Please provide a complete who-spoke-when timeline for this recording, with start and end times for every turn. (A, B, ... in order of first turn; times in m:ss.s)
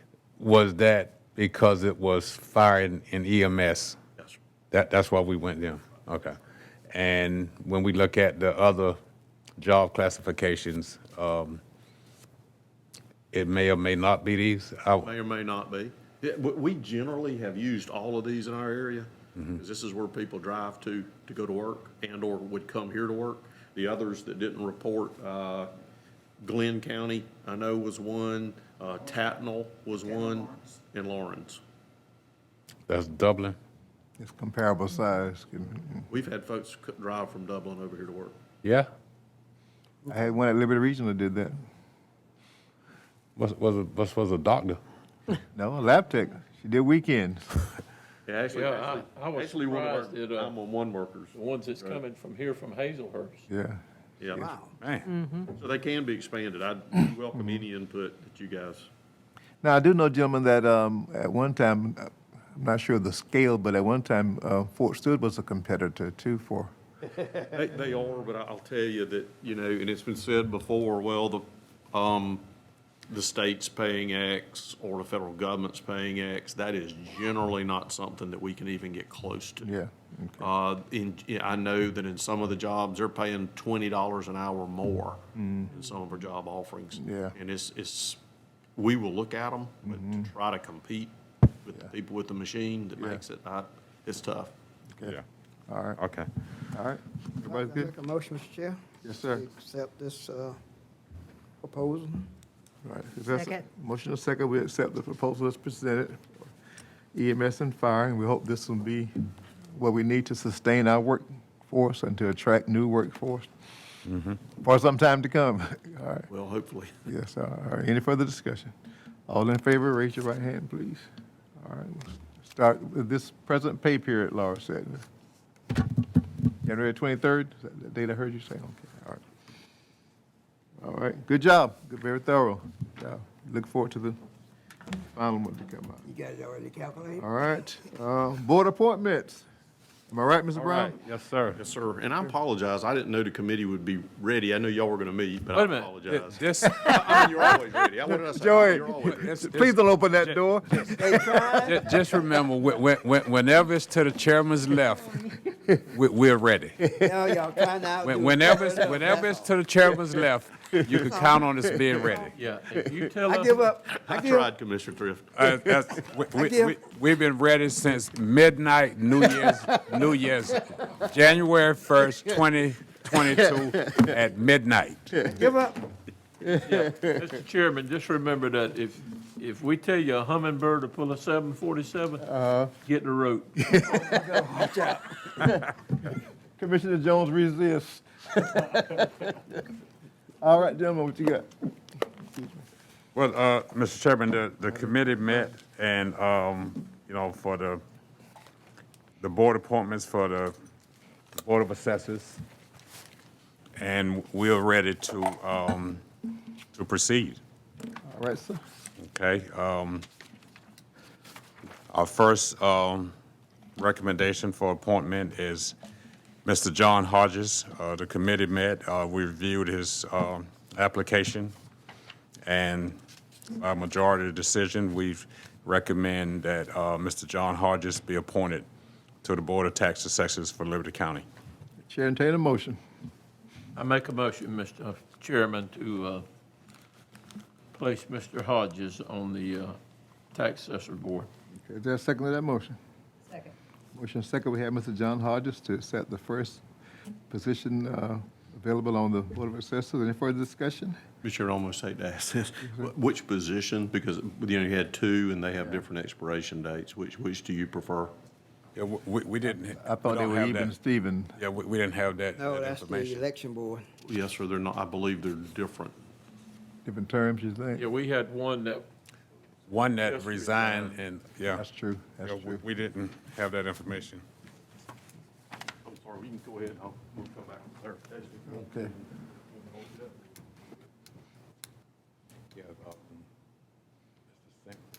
0:00.4-0:04.0 A
0:04.7-0:06.3 A
0:06.9-0:09.0 A
0:09.6-0:11.6 A
0:13.3-0:15.1 A
0:15.0-0:25.7 B
0:26.4-0:31.6 B
0:32.9-0:33.6 A
0:34.2-0:36.0 C
0:36.1-0:38.4 B
0:38.6-0:38.9 A
0:40.0-0:41.6 C
0:43.4-0:44.8 A
0:45.5-0:47.7 C
0:48.3-0:52.0 B
0:48.5-0:50.5 D
0:51.3-0:53.4 D
0:53.5-0:53.8 C
0:54.2-0:54.5 B
0:54.3-0:54.7 E
0:54.8-0:55.1 A
0:55.4-0:58.9 B
0:59.6-1:06.7 C
1:07.4-1:12.4 B
1:13.1-1:19.7 B
1:19.6-1:20.5 C
1:20.4-1:28.2 B
1:25.4-1:25.7 C
1:27.0-1:27.3 C
1:28.8-1:31.1 B
1:29.9-1:30.3 C
1:31.6-1:34.5 B
1:35.7-1:36.0 C
1:36.0-1:36.3 A
1:36.7-1:37.9 C
1:37.4-1:40.6 E
1:39.0-1:39.4 C
1:41.6-1:42.2 E
1:42.8-1:46.4 C
1:47.1-1:49.1 C
1:49.7-1:53.5 C
1:54.1-1:54.4 A
1:54.6-1:56.3 C
1:56.3-1:56.9 B
1:57.0-1:58.7 C
1:59.3-2:01.1 C
2:01.6-2:05.0 C
2:06.5-2:09.2 C
2:10.8-2:14.2 C
2:15.1-2:16.1 C
2:16.1-2:17.3 E
2:17.2-2:19.4 C
2:20.1-2:21.0 C
2:20.6-2:21.6 A
2:21.5-2:29.3 B
2:25.5-2:26.0 D
2:26.1-2:27.3 A
2:26.6-2:27.4 C
2:28.3-2:31.8 C
2:29.0-2:37.0 A
2:30.8-2:31.9 E
2:36.8-2:37.2 C
2:37.0-2:39.5 E
2:38.0-2:42.3 A
2:40.9-2:41.4 E
2:42.3-2:43.7 D
2:43.2-2:44.5 E
2:43.9-2:45.3 B
2:45.3-2:55.2 A
2:46.3-2:46.8 E
2:55.3-2:55.9 E
2:56.4-2:57.0 C
2:56.6-3:04.1 D
3:02.2-3:02.7 C
3:03.6-3:09.6 C
3:04.0-3:05.0 E
3:10.4-3:11.5 C
3:12.3-3:12.6 C
3:13.1-3:17.8 A
3:19.2-3:20.5 A
3:21.4-3:22.4 A
3:23.8-3:26.0 A
3:26.7-3:27.4 A
3:28.0-3:28.6 C
3:29.0-3:30.0 A
3:31.9-3:33.1 A
3:33.8-3:35.7 A
3:36.4-3:41.5 A
3:42.4-3:43.0 A
3:43.6-3:48.6 A
3:49.2-3:51.2 A
3:51.8-3:52.8 C
3:53.7-3:56.2 D
3:57.8-3:59.8 D
4:00.3-4:01.3 D
4:01.6-4:02.8 C
4:03.9-4:06.6 C
4:07.3-4:11.0 C
4:11.2-4:18.1 B
4:18.7-4:20.7 A
4:19.7-4:21.4 C
4:21.4-4:23.2 A
4:22.4-4:23.8 E
4:24.0-4:26.0 B
4:26.8-4:27.8 C
4:27.8-4:28.9 D
4:29.7-4:31.6 A
4:30.0-4:31.0 D
4:31.5-4:32.6 C
4:32.2-4:34.2 A
4:35.8-4:39.0 B
4:38.5-4:38.9 C
4:39.6-4:40.1 B
4:42.5-4:43.3 A
4:44.3-4:44.8 A